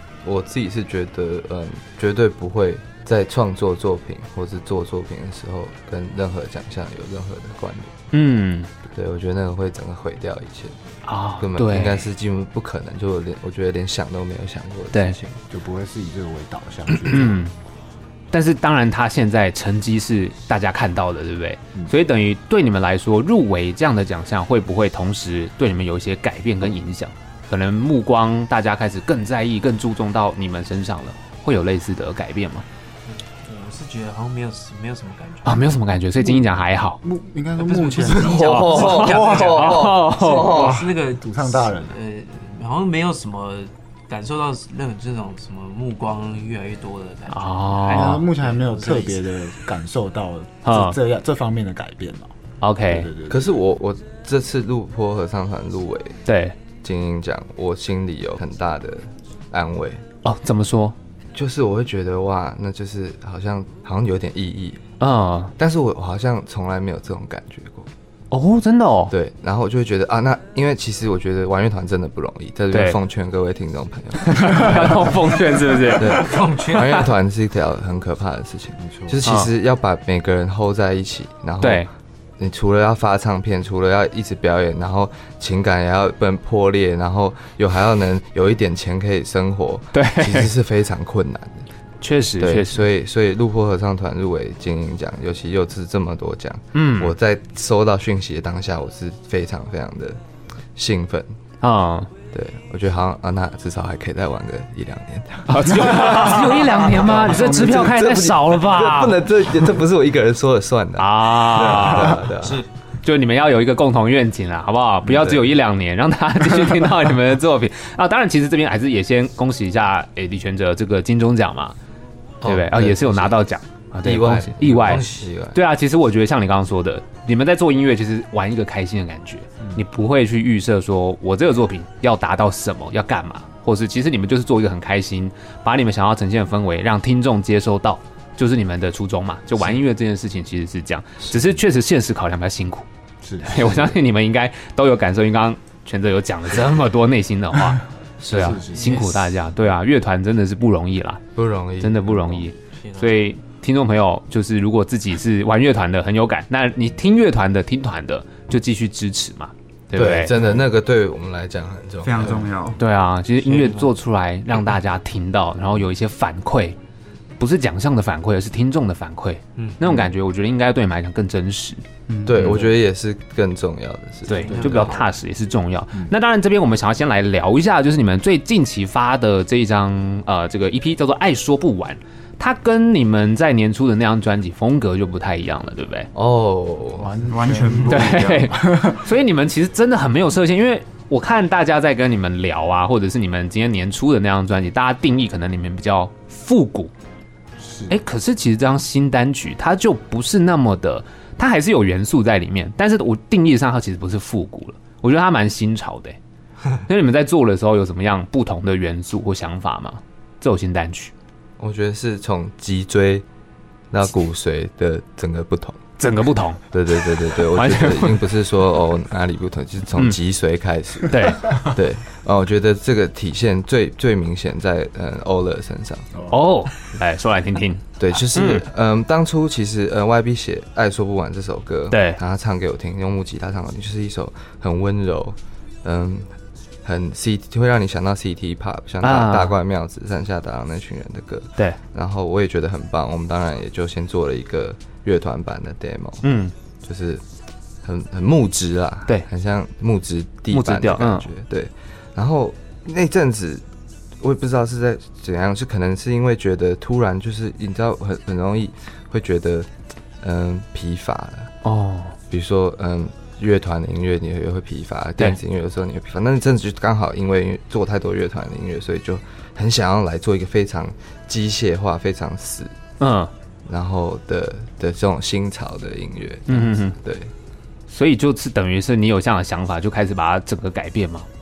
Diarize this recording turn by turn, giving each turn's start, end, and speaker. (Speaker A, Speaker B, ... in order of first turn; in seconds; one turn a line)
Speaker A: 0.2-7.9
Speaker B: 8.1-8.7
Speaker A: 8.9-10.8
Speaker B: 11.0-12.1
Speaker A: 11.4-15.4
Speaker C: 15.5-17.5
Speaker B: 17.0-17.5
Speaker B: 18.3-32.6
Speaker D: 33.0-35.8
Speaker B: 35.4-37.0
Speaker C: 36.2-36.5
Speaker C: 37.0-39.5
Speaker D: 37.6-49.2
Speaker A: 38.0-40.8
Speaker B: 38.4-40.5
Speaker C: 40.4-42.0
Speaker B: 47.3-48.2
Speaker C: 47.8-52.3
Speaker B: 50.6-51.0
Speaker B: 52.6-53.1
Speaker C: 52.9-53.5
Speaker A: 53.3-56.2
Speaker B: 56.2-56.5
Speaker A: 56.8-60.0
Speaker B: 60.2-60.9
Speaker A: 61.3-64.8
Speaker B: 65.0-65.5
Speaker A: 65.6-67.9
Speaker B: 68.3-69.1
Speaker A: 69.1-75.2
Speaker B: 72.7-73.0
Speaker B: 74.2-76.3
Speaker A: 76.0-81.9
Speaker D: 76.0-77.1
Speaker C: 78.8-79.2
Speaker B: 79.2-79.5
Speaker B: 81.6-81.9
Speaker A: 82.4-91.7
Speaker B: 89.9-90.5
Speaker B: 92.0-92.8
Speaker A: 92.4-100.2
Speaker B: 96.7-97.1
Speaker A: 100.8-101.3
Speaker B: 101.6-102.1
Speaker A: 102.3-112.6
Speaker B: 105.5-109.2
Speaker C: 105.8-107.9
Speaker B: 111.0-112.2
Speaker D: 112.4-112.7
Speaker B: 113.0-121.8
Speaker A: 115.0-115.5
Speaker A: 122.4-123.4
Speaker B: 122.4-142.9
Speaker A: 124.0-125.6
Speaker C: 143.2-143.9
Speaker B: 143.4-151.2
Speaker C: 148.2-149.1
Speaker A: 148.3-148.6
Speaker A: 151.3-152.5
Speaker B: 151.8-160.3
Speaker D: 152.8-153.1
Speaker A: 159.9-162.5
Speaker E: 162.0-162.8
Speaker B: 162.8-166.8
Speaker D: 163.4-163.9
Speaker B: 167.4-171.8
Speaker E: 172.1-172.5
Speaker A: 172.2-175.0
Speaker D: 172.4-172.7
Speaker B: 174.3-186.1
Speaker D: 174.3-175.0
Speaker A: 186.1-187.1
Speaker C: 187.0-189.1
Speaker E: 187.2-188.5
Speaker B: 187.9-196.9
Speaker C: 197.6-197.9
Speaker B: 197.9-206.2
Speaker B: 206.8-211.1
Speaker A: 211.6-213.2
Speaker A: 213.9-215.8
Speaker B: 216.0-216.6
Speaker A: 216.7-226.1
Speaker B: 217.5-218.2
Speaker B: 221.1-221.6
Speaker B: 226.3-228.7
Speaker A: 228.0-236.3
Speaker B: 231.9-232.2
Speaker A: 236.8-246.2
Speaker B: 239.0-239.6
Speaker B: 246.2-246.5
Speaker A: 246.8-247.2
Speaker A: 247.8-253.6
Speaker B: 250.5-251.3
Speaker A: 254.2-259.7
Speaker A: 260.2-261.5
Speaker B: 261.6-262.1
Speaker A: 262.3-272.8
Speaker B: 273.0-273.3
Speaker A: 273.6-277.3
Speaker B: 276.5-276.9
Speaker B: 277.9-281.3